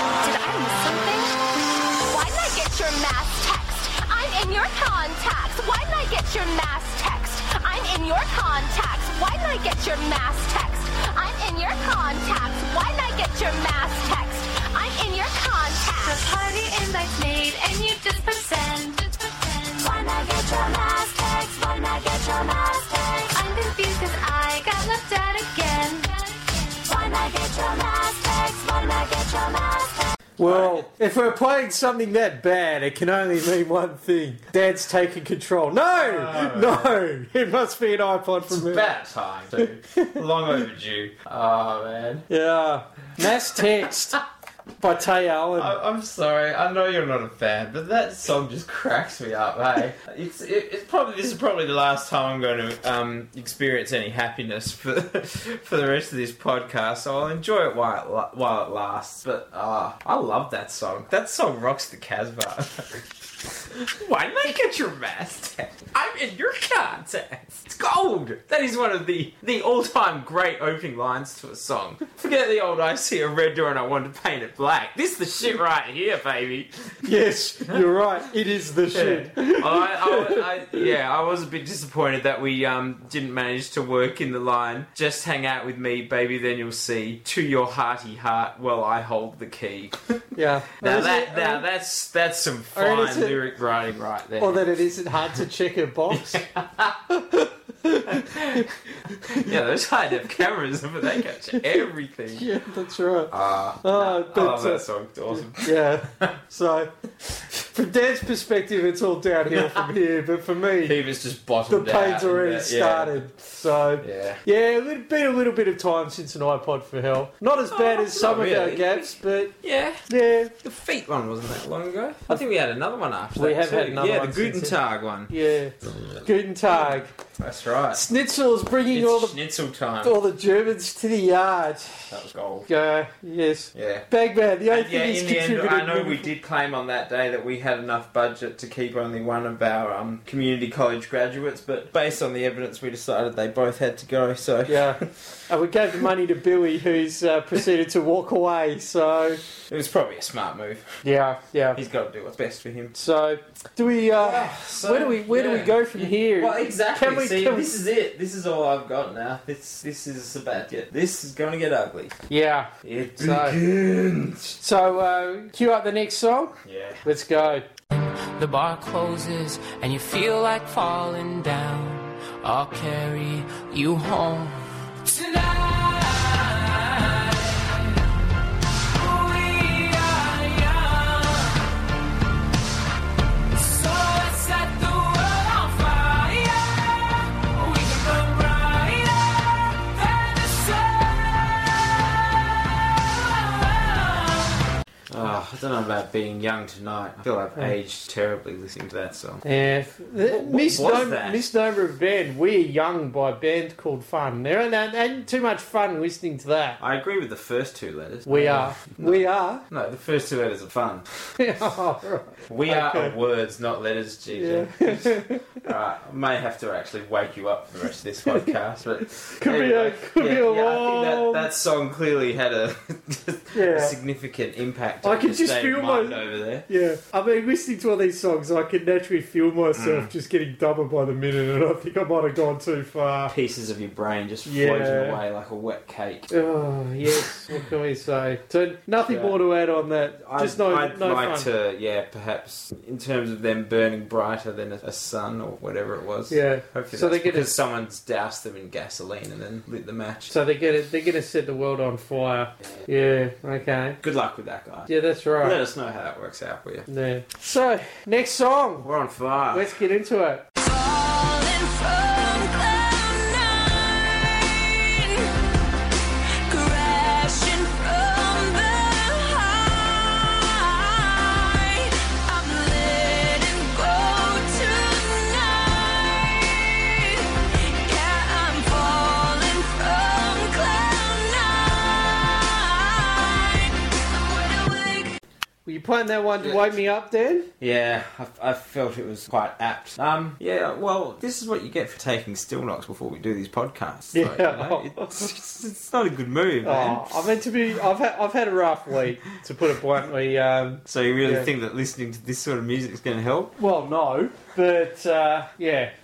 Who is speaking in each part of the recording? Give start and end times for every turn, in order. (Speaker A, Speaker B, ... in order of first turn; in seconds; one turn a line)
Speaker A: 0.2-1.3
Speaker B: 2.1-16.2
Speaker A: 16.0-19.9
Speaker B: 19.8-23.3
Speaker A: 23.3-26.9
Speaker B: 26.8-30.1
Speaker C: 30.4-38.9
Speaker D: 30.4-30.9
Speaker D: 35.9-36.9
Speaker D: 38.5-42.2
Speaker C: 42.3-44.2
Speaker D: 43.2-43.6
Speaker C: 44.8-45.8
Speaker D: 45.5-77.1
Speaker C: 77.0-80.4
Speaker D: 78.9-90.2
Speaker C: 90.3-91.7
Speaker D: 90.8-94.6
Speaker C: 92.7-93.4
Speaker C: 94.4-96.5
Speaker D: 96.1-97.0
Speaker C: 97.1-99.4
Speaker D: 98.1-98.7
Speaker D: 99.3-102.5
Speaker C: 102.3-104.8
Speaker D: 103.3-106.3
Speaker C: 105.5-106.9
Speaker C: 107.5-111.0
Speaker D: 109.5-109.9
Speaker D: 110.8-113.3
Speaker C: 111.7-119.5
Speaker D: 114.0-114.4
Speaker D: 117.7-120.1
Speaker C: 120.1-120.5
Speaker D: 120.6-125.3
Speaker C: 123.4-127.1
Speaker D: 125.8-128.0
Speaker C: 127.9-129.4
Speaker D: 128.9-130.2
Speaker C: 130.0-132.1
Speaker D: 132.1-132.7
Speaker C: 132.7-136.3
Speaker D: 133.7-134.1
Speaker D: 134.7-145.1
Speaker C: 144.7-149.4
Speaker D: 149.7-151.0
Speaker C: 151.0-151.8
Speaker D: 151.7-153.0
Speaker C: 152.9-157.7
Speaker D: 154.1-162.2
Speaker C: 162.3-163.6
Speaker D: 162.8-164.6
Speaker C: 164.6-167.7
Speaker D: 166.6-167.1
Speaker E: 167.9-178.0
Speaker E: 178.9-181.6
Speaker E: 183.5-192.3
Speaker E: 193.2-194.5
Speaker D: 195.1-199.4
Speaker C: 199.4-206.8
Speaker D: 200.2-201.5
Speaker D: 206.8-211.1
Speaker C: 208.3-209.6
Speaker C: 211.4-213.1
Speaker D: 212.5-226.7
Speaker C: 214.3-215.5
Speaker C: 219.4-221.5
Speaker C: 223.5-223.9
Speaker C: 225.0-233.3
Speaker D: 229.7-230.1
Speaker D: 233.3-236.3
Speaker C: 234.4-235.2
Speaker C: 236.3-241.5
Speaker D: 237.1-237.5
Speaker D: 239.0-239.4
Speaker D: 240.3-250.3
Speaker C: 246.3-247.5
Speaker C: 250.3-254.0
Speaker D: 254.0-256.9
Speaker C: 254.9-255.6
Speaker C: 256.9-258.9
Speaker D: 258.8-259.7
Speaker C: 259.5-260.4
Speaker B: 260.7-262.3
Speaker B: 262.9-263.6
Speaker E: 266.7-271.6
Speaker B: 272.3-272.5
Speaker E: 272.4-273.4
Speaker B: 273.6-275.7
Speaker B: 277.9-285.1
Speaker C: 285.6-287.5
Speaker D: 286.4-286.7
Speaker D: 287.6-297.2
Speaker C: 294.1-295.0
Speaker C: 296.6-301.5
Speaker D: 300.9-303.5
Speaker C: 303.6-305.9